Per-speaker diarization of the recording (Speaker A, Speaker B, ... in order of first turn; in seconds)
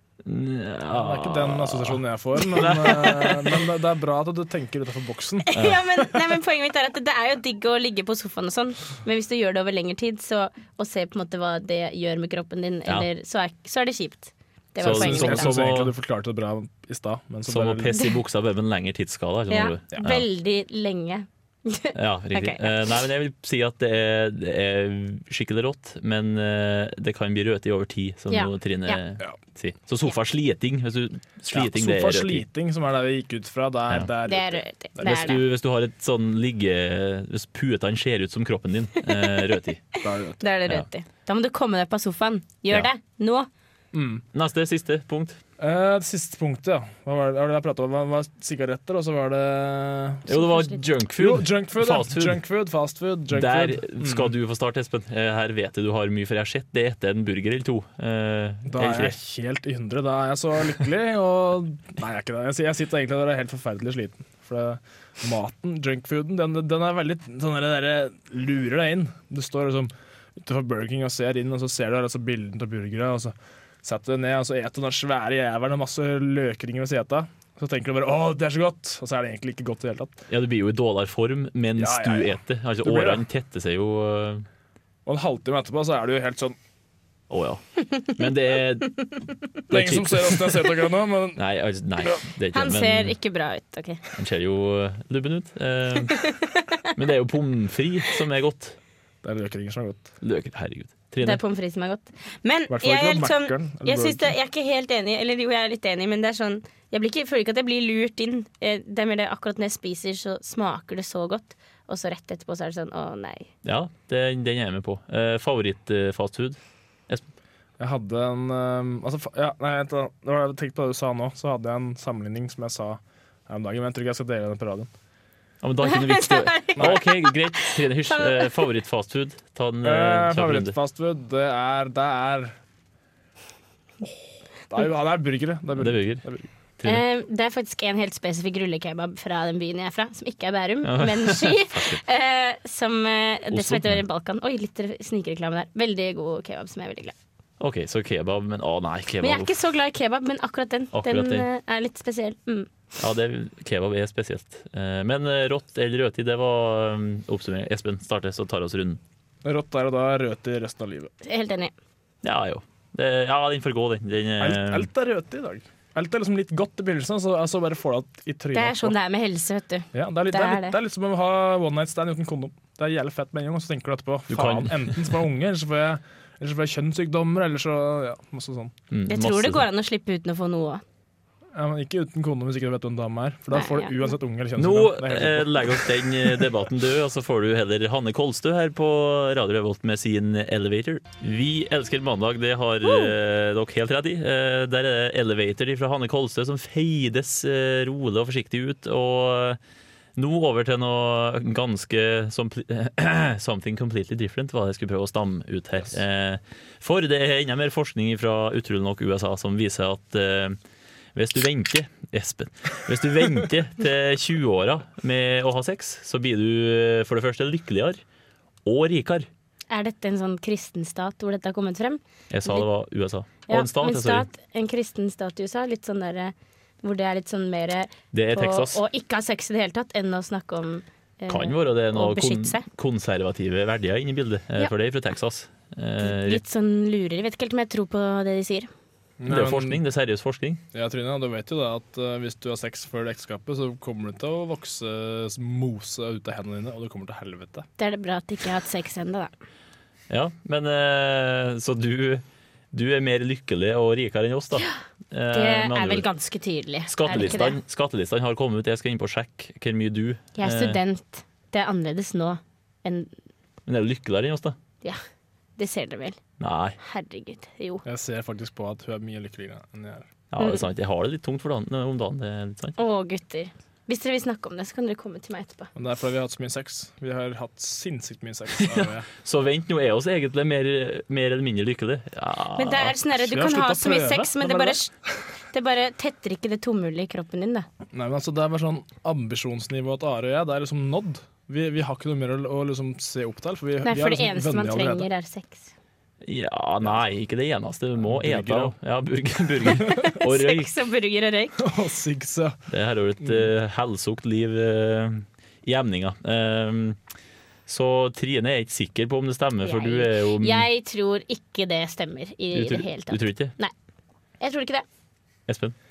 Speaker A: 0.2-3.6, 5.5-6.2, 14.8-15.9, 17.5-20.3, 21.9-32.4, 35.0-39.9, 44.3-45.4, 50.3-52.4, 53.3-59.1, 80.3-84.5, 87.3-90.8, 91.4-93.1, 94.1-96.3, 97.0-98.8, 100.2-101.4, 113.6-116.6, 125.6-130.8, 135.8-136.2, 140.8-142.0, 143.5-144.0, 147.6-149.5, 150.9-151.4, 153.0-159.0, 162.2-164.9, 174.3-175.0, 178.9-179.6, 184.6-199.6, 200.2-210.6, 211.1-218.0, 218.6-219.3, 222.3-224.3, 228.1-228.8, 231.3-236.4, 239.3-240.6, 250.1-256.1, 256.9-260.8, 263.6-264.6, 266.4-266.8, 270.3-272.8, 278.6-282.9, 296.2-300.7, 302.7-307.0, 307.7-310.6, 312.5-313.5, 315.5-315.8
Speaker B: 0.9-5.5, 14.8-17.9, 31.5-35.3, 40.0-40.4, 43.9-44.2, 45.6-50.3, 51.2-54.3, 58.7-80.2, 81.8-83.2, 85.1-86.6, 89.7-91.4, 99.2-100.1, 102.7-104.3, 117.8-124.9, 129.8-132.6, 134.0-136.5, 159.4-161.1, 164.4-168.9, 169.9-178.7, 181.6-186.6, 239.2-239.8, 240.7-247.7, 267.9-270.1, 275.8-279.1, 283.1-284.8, 287.9-295.1, 298.0-298.8, 301.6-302.6
Speaker C: 5.5-15.6, 19.5-22.9, 28.3-29.0, 34.3-35.4, 40.4-43.5, 50.3-50.9, 92.5-94.0, 96.2-96.9, 101.2-113.5, 125.9-128.5, 136.8-147.1, 149.2-152.7, 161.2-161.7, 168.5-170.8, 179.1-180.8, 183.5-184.1, 192.8-193.1, 219.7-222.7, 223.5-232.7, 236.0-238.7, 247.8-249.3, 255.3-257.6, 260.4-263.1, 265.6-266.2, 266.8-267.8, 272.8-275.7, 282.6-284.9, 285.5-287.7, 293.8-295.7, 299.7-301.6, 309.6-313.7, 314.4-314.9